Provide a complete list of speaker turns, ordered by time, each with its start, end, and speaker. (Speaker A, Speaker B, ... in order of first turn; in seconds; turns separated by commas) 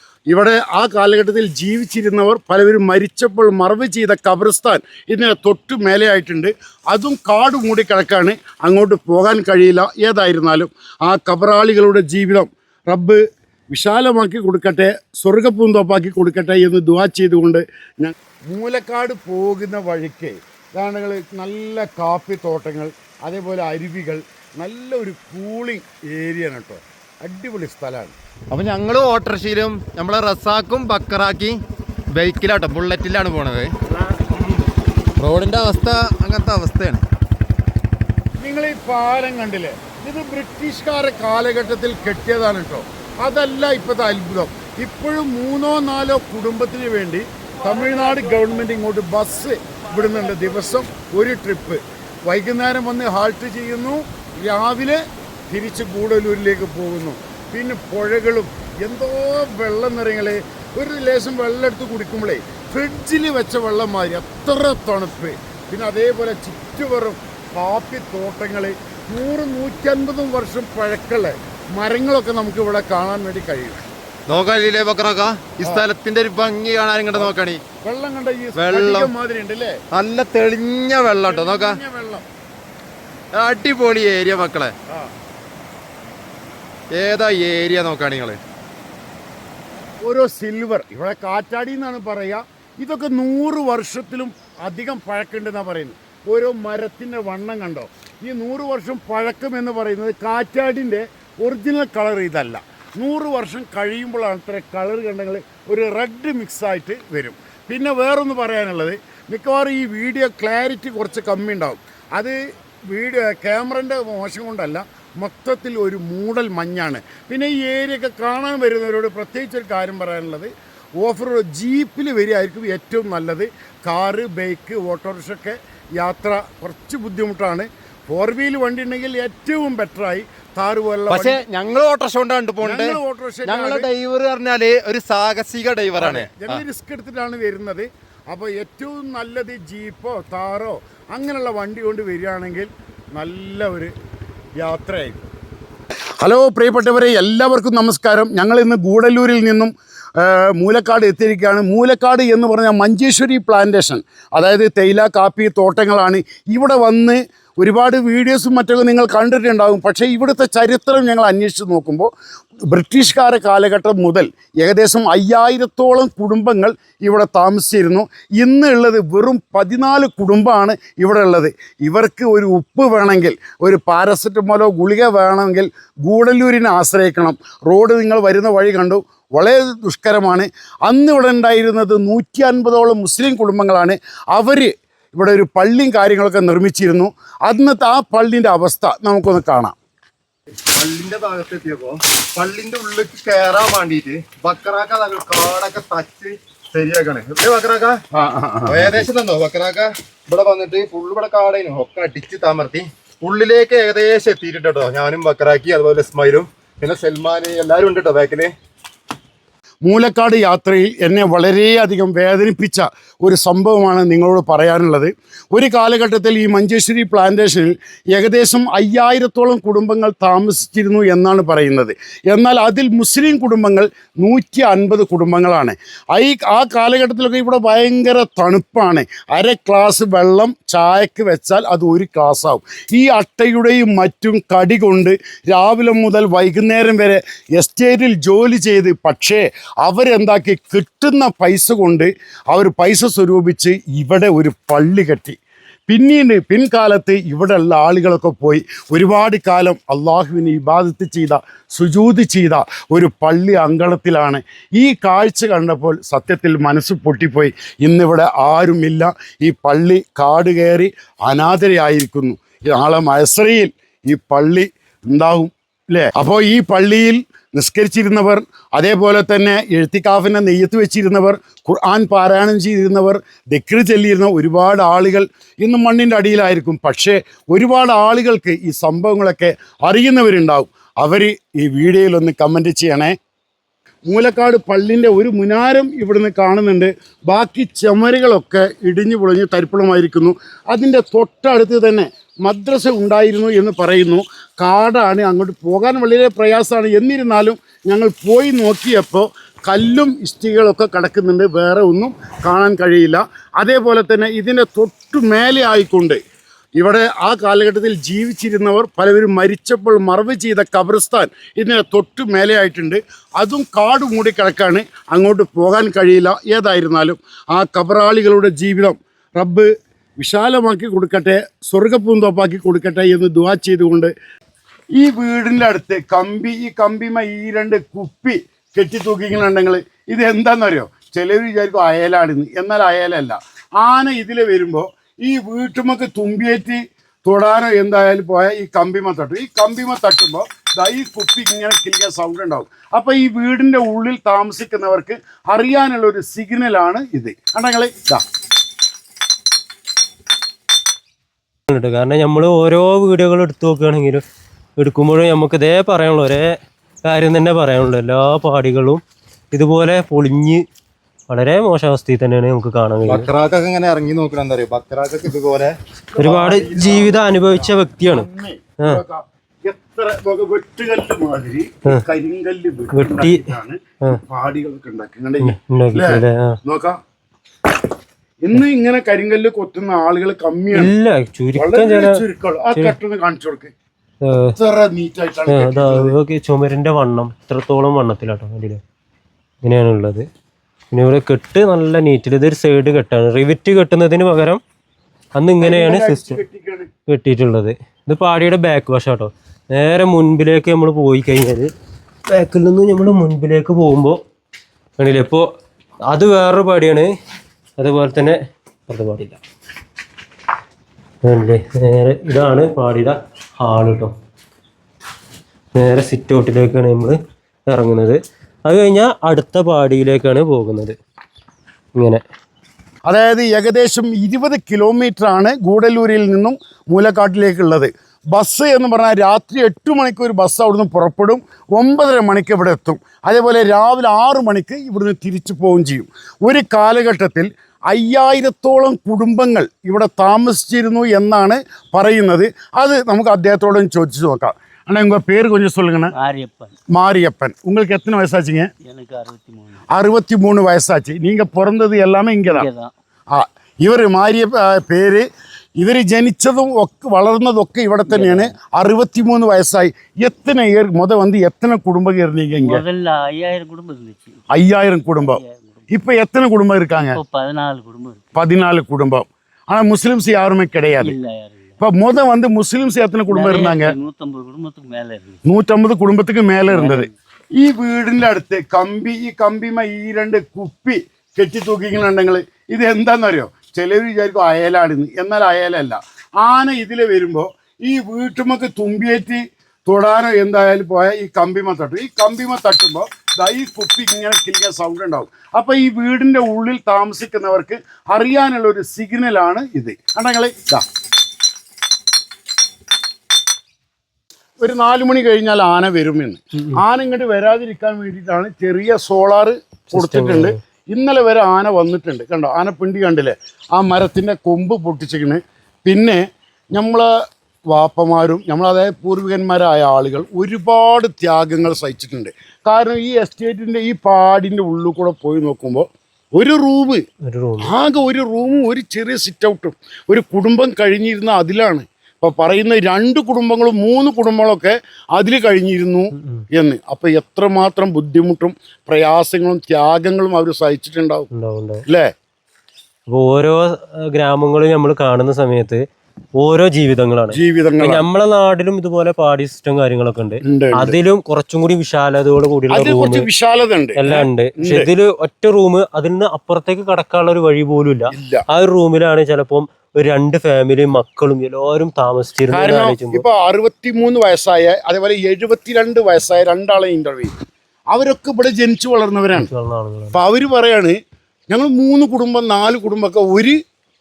Speaker A: 0.3-13.2, Speaker A: 13.7-28.1, Speaker B: 28.5-31.6, Speaker B: 32.1-33.7, Speaker B: 35.2-37.0, Speaker A: 38.4-73.8, Speaker B: 74.3-77.6, Speaker A: 77.8-79.7, Speaker B: 78.5-79.1, Speaker B: 79.9-81.8, Speaker A: 81.2-82.2, Speaker B: 83.3-84.7, Speaker B: 86.9-88.4, Speaker A: 90.0-112.4, Speaker A: 112.9-131.4, Speaker B: 131.1-136.6, Speaker A: 132.6-133.9, Speaker A: 136.0-143.9, Speaker A: 144.6-145.3, Speaker A: 146.2-162.1, Speaker A: 162.7-189.8, Speaker B: 190.7-198.0, Speaker A: 198.1-199.1, Speaker B: 198.7-208.5, Speaker A: 209.8-245.4, Speaker A: 245.9-283.1, Speaker A: 284.1-306.2, Speaker A: 306.8-319.7, Speaker A: 320.2-324.1, Speaker A: 325.0-348.2, Speaker C: 351.7-354.2, Speaker C: 354.8-356.5, Speaker C: 357.1-360.6, Speaker C: 361.3-363.3, Speaker B: 363.1-367.0, Speaker C: 366.2-368.3, Speaker A: 366.2-377.0, Speaker C: 372.9-373.4, Speaker C: 375.4-376.5, Speaker A: 378.4-380.9, Speaker C: 380.7-382.2, Speaker A: 381.6-383.7, Speaker C: 384.2-384.5, Speaker A: 384.6-386.1, Speaker C: 385.5-388.8, Speaker C: 389.6-390.2, Speaker C: 390.9-394.6, Speaker C: 395.4-396.4, Speaker A: 395.6-396.9, Speaker C: 397.1-401.7, Speaker C: 402.3-404.2, Speaker C: 405.0-405.4, Speaker C: 406.1-407.1, Speaker C: 407.8-408.4, Speaker C: 408.9-409.4, Speaker C: 411.2-414.1, Speaker C: 415.8-417.2, Speaker C: 417.7-420.9, Speaker C: 422.0-422.2, Speaker A: 423.1-446.1, Speaker D: 446.2-446.7, Speaker A: 446.9-448.7, Speaker D: 448.8-449.9, Speaker A: 449.9-452.7, Speaker D: 452.5-452.9, Speaker A: 453.3-455.2, Speaker A: 455.8-462.8, Speaker D: 458.1-458.5, Speaker D: 462.6-464.4, Speaker A: 464.5-467.2, Speaker D: 465.2-465.9, Speaker D: 466.9-468.3, Speaker A: 468.4-471.1, Speaker D: 471.0-471.8, Speaker A: 471.8-473.9, Speaker D: 473.3-475.4, Speaker A: 475.5-477.1, Speaker D: 476.7-477.1, Speaker A: 477.6-500.9, Speaker A: 504.6-516.2, Speaker C: 509.9-510.6, Speaker A: 516.7-517.1, Speaker A: 517.7-527.0, Speaker C: 527.2-527.7, Speaker A: 527.6-541.3, Speaker C: 541.3-541.8, Speaker C: 543.1-545.8, Speaker C: 546.4-553.3, Speaker A: 547.3-548.1, Speaker A: 550.4-551.0, Speaker A: 552.7-554.9, Speaker C: 554.0-563.2, Speaker A: 558.1-558.4, Speaker A: 562.5-567.3, Speaker A: 567.9-569.5, Speaker C: 569.4-570.2, Speaker A: 570.1-571.0, Speaker A: 571.5-573.6